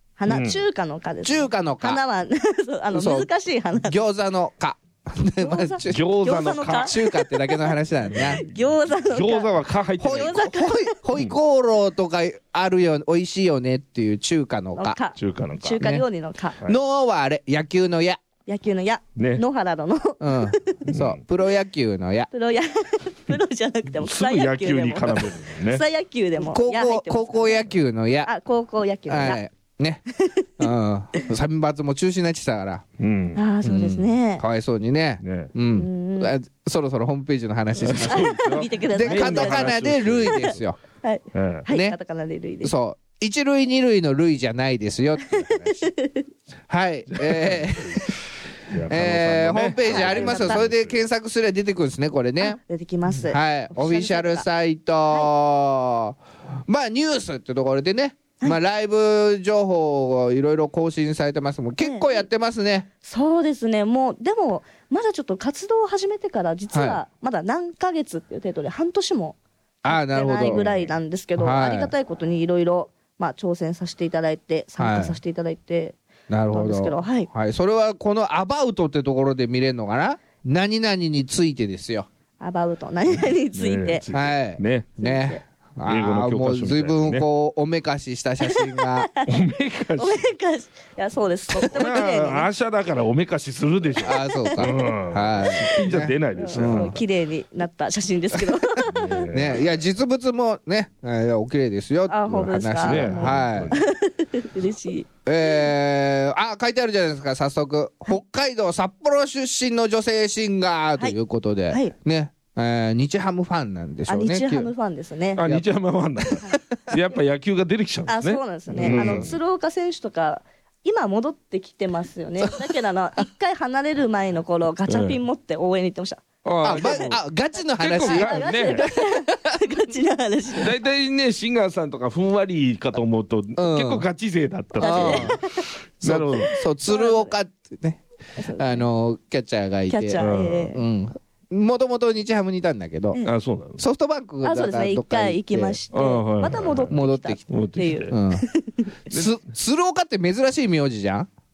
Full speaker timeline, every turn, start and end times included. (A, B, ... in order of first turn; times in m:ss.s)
0:00.2-0:04.0 A
0:00.3-0:00.6 B
0:01.2-0:02.0 C
0:02.9-0:03.3 C
0:03.8-0:06.1 C
0:05.4-0:11.0 A
0:05.9-0:07.0 B
0:06.7-0:08.4 C
0:08.1-0:10.5 B
0:10.0-0:15.0 C
0:14.8-0:16.6 A
0:15.2-0:15.8 B
0:16.6-0:18.2 C
0:18.5-0:20.9 A
0:19.2-0:19.4 B
0:20.2-0:22.3 C
0:20.9-0:21.2 B
0:22.3-0:27.7 A
0:24.0-0:25.8 B
0:26.4-0:28.3 C
0:28.2-0:29.4 A
0:29.1-0:30.0 C
0:30.1-0:30.6 A
0:30.6-0:32.8 C
0:33.0-0:33.4 B
0:33.4-0:34.4 A
0:33.6-0:38.4 C
0:35.2-0:35.5 B
0:35.8-0:36.3 A
0:37.8-0:40.6 B
0:38.0-0:40.5 A
0:38.9-0:40.8 C
0:41.0-0:42.7 A
0:41.3-0:41.7 B
0:41.7-0:42.0 C
0:42.6-0:45.9 C
0:45.5-0:46.2 A
0:46.7-0:48.0 C
0:47.1-0:51.0 B
0:48.9-1:02.9 C
0:49.8-0:50.6 A
0:52.4-0:54.5 A
1:01.8-1:02.2 A
1:03.0-1:09.4 A
1:06.7-1:07.0 C
1:09.8-1:10.9 C
1:09.9-1:16.0 A
1:11.4-1:11.9 C
1:14.8-1:15.2 C
1:16.3-1:22.1 C
1:16.5-1:17.3 A
1:22.4-1:24.1 A
1:23.5-1:25.0 B
1:24.1-1:29.1 C
1:25.0-1:25.4 A
1:25.8-1:27.3 B
1:28.5-1:29.3 A
1:29.3-1:30.3 B
1:30.0-1:32.5 A
1:31.6-1:37.0 B
1:34.0-1:37.0 C
1:34.2-1:34.9 A
1:36.4-1:39.3 A
1:38.4-1:43.8 C
1:38.8-1:39.6 B
1:42.1-1:45.1 A
1:42.7-1:43.8 B
1:45.3-1:54.7 C
1:54.1-1:55.4 A
1:55.4-1:59.4 B
1:55.4-1:55.6 C
1:56.2-1:56.6 C
1:58.1-2:07.1 A
1:58.8-1:59.3 C
2:04.9-2:05.2 B
2:06.4-2:07.2 B
2:06.6-2:09.6 C
2:07.8-2:08.9 B
2:08.0-2:10.8 A
2:10.6-2:16.6 B
2:13.6-2:14.1 C
2:14.8-2:15.4 C
2:14.8-2:15.7 A
2:16.0-2:18.0 C
2:16.8-2:17.3 A
2:18.4-2:18.9 A
2:18.6-2:23.3 C
2:19.9-2:20.8 A
2:20.2-2:20.8 B
2:23.2-2:23.8 B
2:23.8-2:25.8 C
2:24.4-2:28.9 A
2:25.9-2:28.2 B
2:26.8-2:27.4 C
2:28.1-2:28.4 C
2:29.1-2:31.3 C